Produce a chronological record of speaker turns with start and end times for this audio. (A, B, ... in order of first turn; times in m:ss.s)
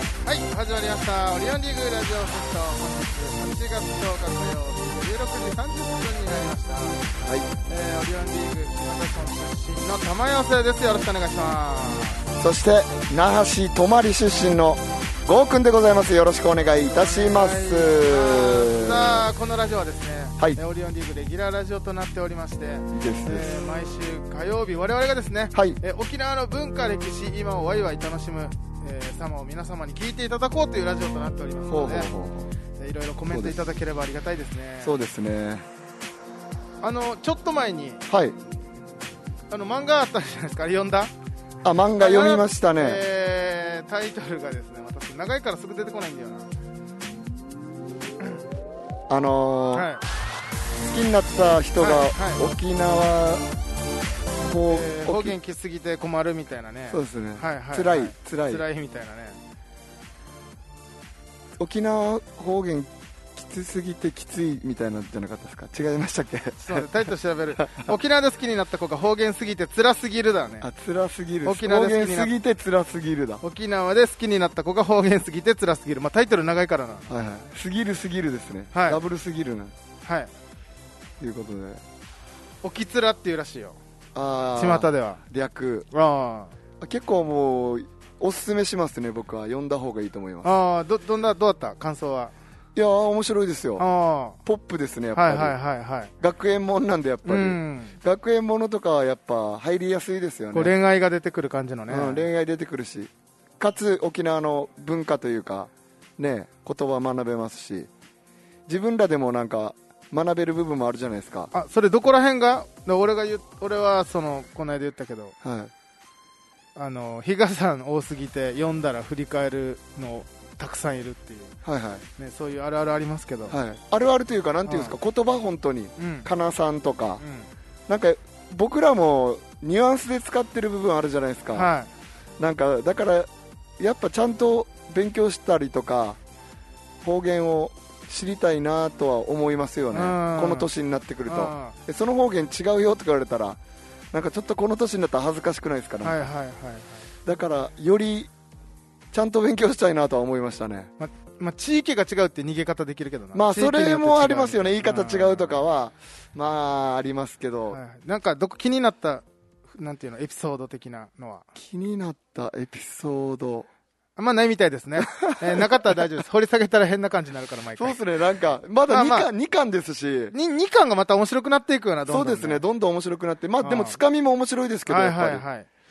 0:00.2-0:07.0 A
0:07.2-0:07.5 B
0:07.6-0:12.3 A
0:12.4-0:19.2 B
0:16.9-0:32.1 A
0:22.9-0:23.5 B
0:25.5-0:25.8 B
0:31.7-0:32.5 B
0:32.8-0:34.9 A
0:33.3-0:33.6 B
0:34.8-0:35.7 B
0:36.8-0:38.0 A
0:38.1-0:38.4 B
0:39.5-0:41.1 A
0:41.6-0:43.0 B
0:42.0-0:46.5 A
0:49.1-0:49.9 B
0:49.7-0:50.0 A
0:50.8-0:53.5 B
0:51.8-0:52.5 A
0:54.4-0:55.4 B
0:54.7-0:59.4 A
0:56.9-0:58.6 B
1:01.6-1:06.9 B
1:06.6-1:10.7 A
1:07.6-1:07.9 B
1:10.6-1:13.4 B
1:11.4-1:12.3 A
1:13.4-1:17.1 A
1:17.1-1:19.7 B
1:18.7-1:19.0 A
1:20.0-1:20.3 A
1:21.2-1:21.8 B
1:22.6-1:23.8 A
1:24.1-1:25.9 B
1:24.6-1:25.2 A
1:25.9-1:26.5 A
1:26.8-1:30.5 B
1:30.4-1:32.3 A
1:32.7-1:33.8 B
1:33.8-1:34.4 A
1:34.4-1:35.6 B
1:35.1-1:36.1 A
1:36.2-1:40.7 B
1:37.2-1:38.0 A
1:40.5-1:42.3 A
1:41.9-1:47.9 B
1:48.7-1:51.5 B
1:51.5-1:55.3 A
1:55.4-1:55.7 B
1:56.8-2:01.6 A
2:01.6-2:02.0 B
2:02.2-2:03.6 A
2:03.5-2:07.2 B
2:04.6-2:05.0 A
2:06.0-2:06.3 A
2:07.2-2:07.5 A
2:07.9-2:11.7 B
2:11.5-2:11.9 A
2:12.4-2:16.2 B
2:17.0-2:23.6 B
2:19.9-2:20.7 A
2:21.3-2:21.8 A
2:24.1-2:26.2 B
2:26.0-2:27.1 A
2:27.2-2:28.3 B
2:29.1-2:30.9 B
2:31.0-2:35.6 A
2:33.3-2:37.8 B
2:37.7-2:41.4 A
2:41.5-2:43.7 B
2:44.2-2:48.0 A
2:45.0-2:46.0 B
2:47.8-2:50.3 B
2:48.9-2:49.3 A
2:50.3-2:52.6 A
2:52.1-2:55.4 B
2:53.6-2:54.0 A
2:54.9-2:55.7 A